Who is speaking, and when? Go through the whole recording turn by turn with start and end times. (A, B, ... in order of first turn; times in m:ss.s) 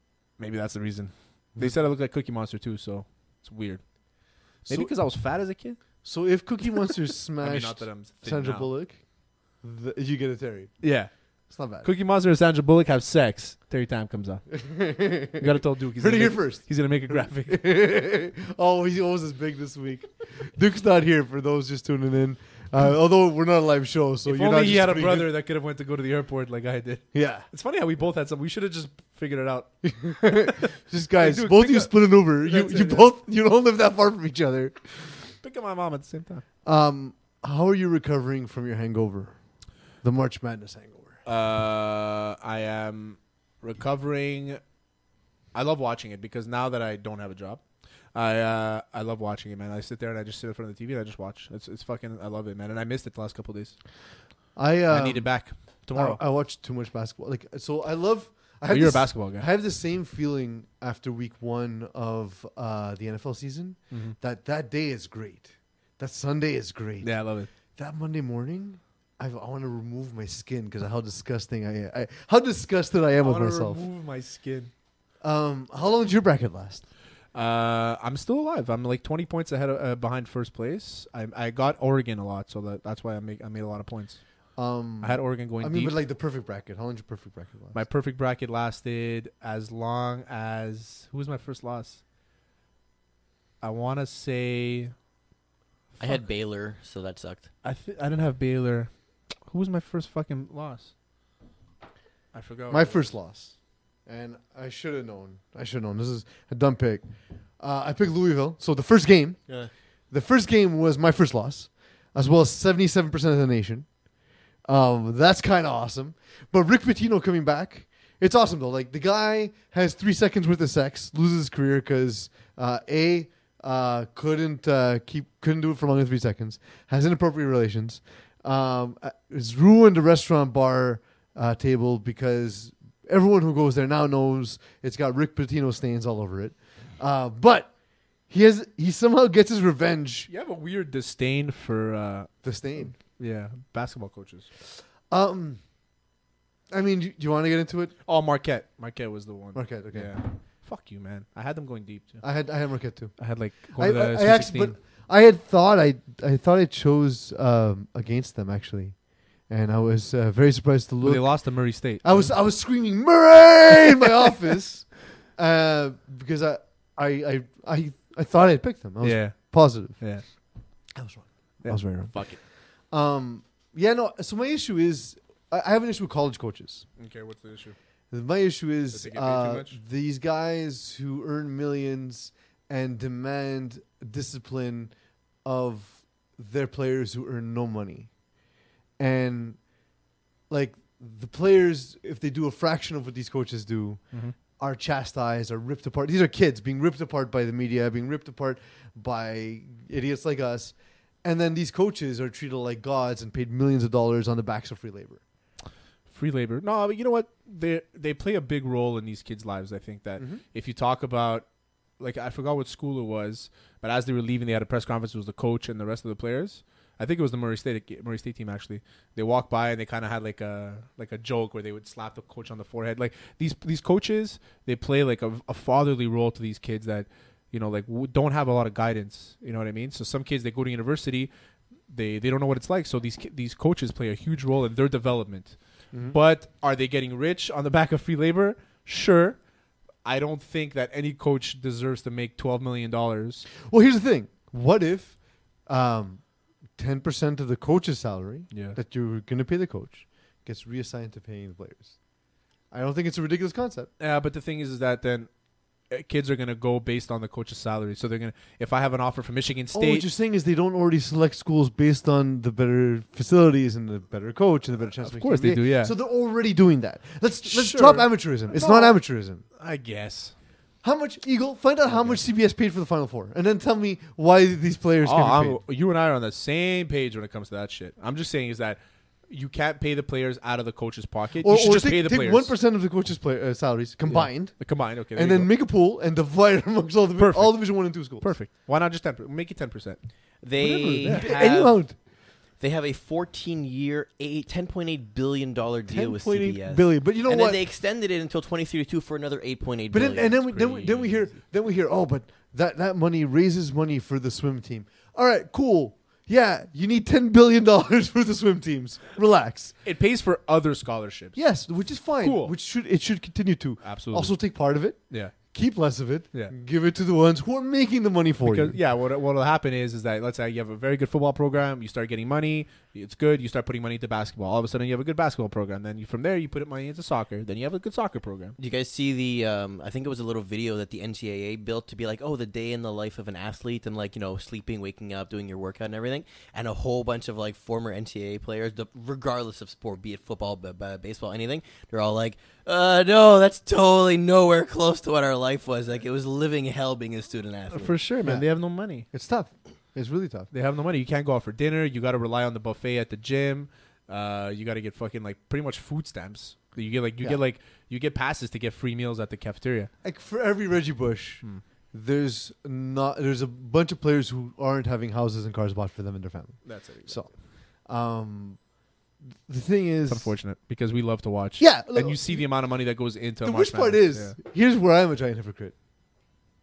0:00.4-0:03.8 A
0:04.6-0:05.8 A
0:04.7-0:04.9 B
0:06.0-0:09.0 B
0:07.4-0:08.7 A
0:09.6-0:10.8 B
0:10.8-0:11.1 A
0:11.5-0:11.9 B
0:11.7-0:14.7 A
0:14.6-0:25.3 B
0:15.4-0:17.6 A
0:24.2-0:30.6 A
0:27.1-0:27.4 B
0:29.8-0:35.1 B
0:31.2-0:33.1 A
0:35.4-0:36.4 A
0:36.6-0:39.4 B
0:40.0-0:41.2 B
0:41.2-0:44.6 A
0:45.5-0:47.6 A
0:48.1-0:53.8 A
0:54.6-1:13.8 B
0:54.9-0:56.2 A
0:58.7-0:59.5 A
1:03.9-1:04.2 A
1:07.0-1:07.5 A
1:13.2-1:14.7 A
1:15.2-1:16.8 B
1:17.3-1:24.2 A
1:24.6-1:27.8 B
1:25.0-1:26.0 A
1:27.7-1:32.0 A
1:33.6-1:34.9 A
1:36.0-1:37.5 C
1:37.6-1:38.9 A
1:39.4-1:40.9 A
1:42.3-1:43.1 A
1:42.7-1:43.5 B
1:44.0-1:47.0 B
1:47.6-1:49.6 B
1:50.1-1:54.0 B
1:54.6-2:17.7 B
2:18.3-2:20.3 B
2:20.3-2:22.4 A
2:22.4-2:23.0 B
2:23.2-2:24.5 A
2:25.1-2:25.6 B
2:26.7-2:27.9 B
2:28.0-2:32.2 A
2:29.5-2:30.2 B
2:32.2-2:33.2 B
2:33.2-2:34.8 A
2:33.7-2:50.0 B
2:41.0-2:42.3 A
2:49.0-2:50.2 A
2:50.9-2:52.3 B
2:51.6-2:52.4 A
2:52.9-2:56.8 B
2:57.0-2:57.8 A
2:58.1-3:08.1 B
2:58.9-2:59.8 A
3:09.0-3:09.6 B
3:10.5-3:25.2 B
3:26.1-3:31.4 A
3:32.0-3:51.3 A
3:51.9-3:59.5 A
4:00.0-4:03.5 A
4:03.6-4:12.0 B
4:08.5-4:08.8 A
4:12.7-4:13.9 B
4:14.0-4:15.3 A
4:15.9-4:20.1 A
4:19.7-4:29.4 B
4:25.0-4:25.9 A
4:27.4-4:29.0 A
4:29.6-4:30.3 A
4:30.8-4:35.6 B
4:31.9-4:32.2 A
4:35.0-4:42.5 A
4:41.4-4:48.3 B
4:44.1-4:45.5 A
4:47.2-4:51.2 A
4:50.4-5:00.7 C
4:50.6-4:52.0 B
4:55.9-4:57.6 B
4:59.9-5:09.8 B
5:00.6-5:01.1 A
5:09.8-5:12.5 A
5:11.3-5:18.8 B
5:13.8-5:15.5 A
5:18.4-5:28.6 A
5:28.6-5:48.0 C
5:47.7-5:49.1 A
5:48.2-5:50.5 B
5:50.5-5:59.9 A
6:00.0-6:07.3 B
6:06.6-6:07.3 A
6:07.8-6:08.6 B
6:09.4-6:10.3 B
6:10.1-6:14.4 A
6:11.6-6:12.5 B
6:13.4-6:15.7 B